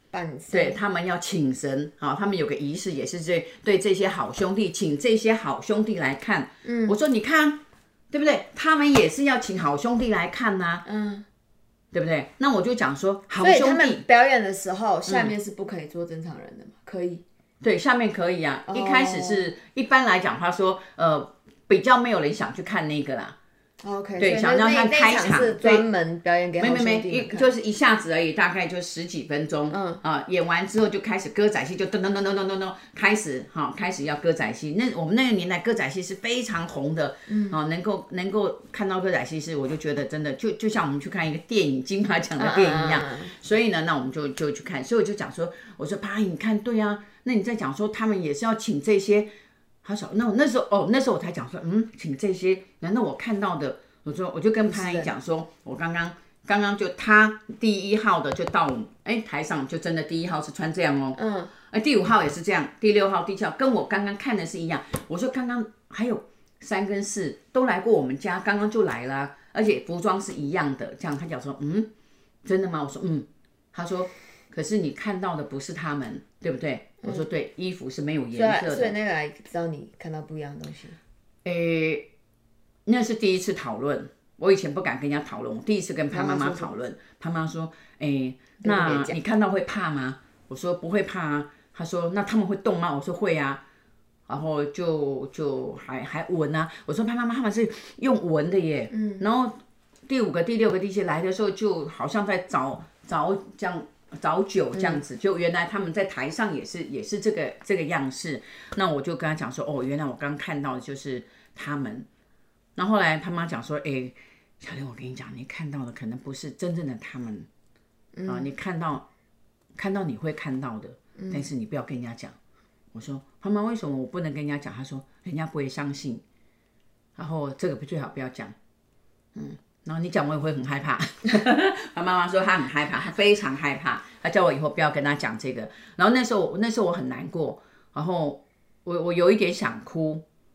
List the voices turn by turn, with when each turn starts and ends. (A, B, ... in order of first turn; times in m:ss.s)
0:00.1-0:00.8 A
0:00.5-0:10.8 B
0:06.6-0:07.0 A
0:10.8-0:11.2 A
0:11.9-0:14.0 B
0:13.4-0:17.2 A
0:15.1-0:15.3 B
0:17.6-0:23.4 B
0:18.7-0:19.5 A
0:23.8-0:27.5 A
0:24.2-0:25.8 B
0:26.6-0:49.3 B
0:29.7-0:30.0 A
0:37.3-0:37.6 A
0:42.4-0:43.3 A
0:49.8-1:11.9 B
0:54.7-0:55.1 A
1:01.2-1:01.5 A
1:12.4-1:18.9 B
1:18.3-1:21.0 A
1:21.4-1:22.0 B
1:22.8-1:33.6 B
1:26.1-1:26.7 A
1:28.6-1:29.2 A
1:34.3-1:52.1 B
1:38.9-1:39.2 A
1:52.8-1:57.5 B
1:58.1-1:58.5 A
1:58.2-1:59.0 B
1:59.8-2:02.4 B
2:01.2-2:01.4 A
2:02.9-2:06.2 B
2:07.2-2:08.5 B
2:09.3-2:20.2 B